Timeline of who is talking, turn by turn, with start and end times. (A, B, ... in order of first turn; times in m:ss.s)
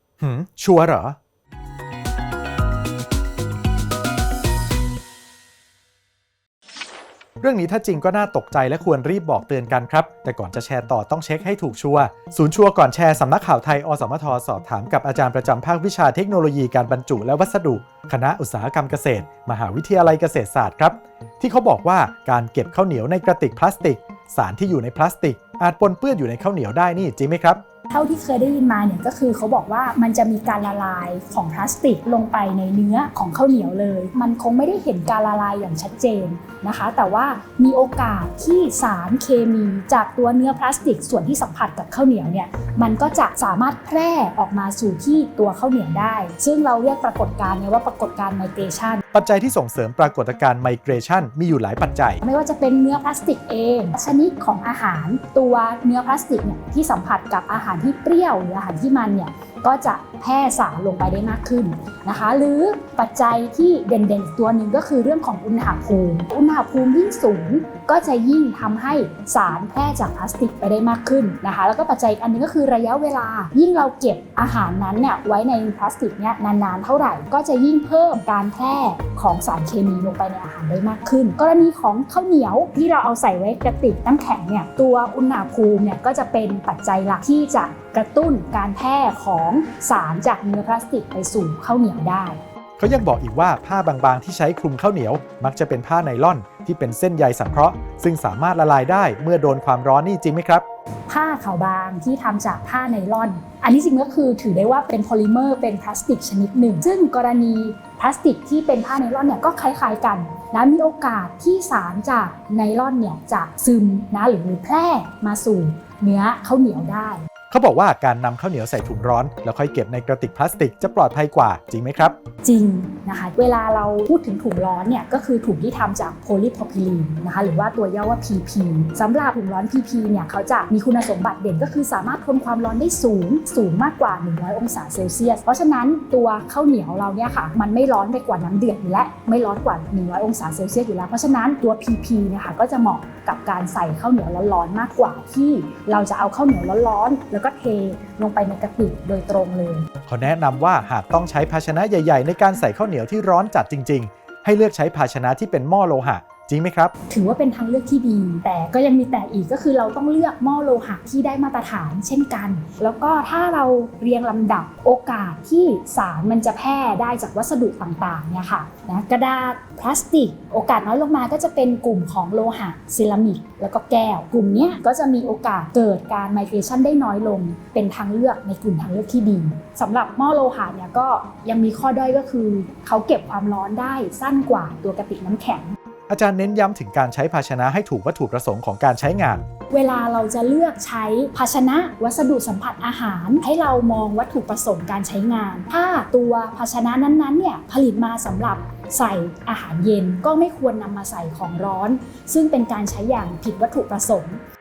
0:00.2-0:01.2 A
0:07.4-0:27.6 A
0:27.9-0:49.0 B
0:49.1-0:52.2 A
0:52.2-1:32.4 B
1:32.8-1:40.6 A
1:41.1-1:57.2 B
1:57.5-2:02.2 A
2:02.4-2:29.9 B
2:30.1-2:36.9 A
2:37.1-3:05.8 B
3:06.1-3:09.4 A
3:09.7-3:24.4 B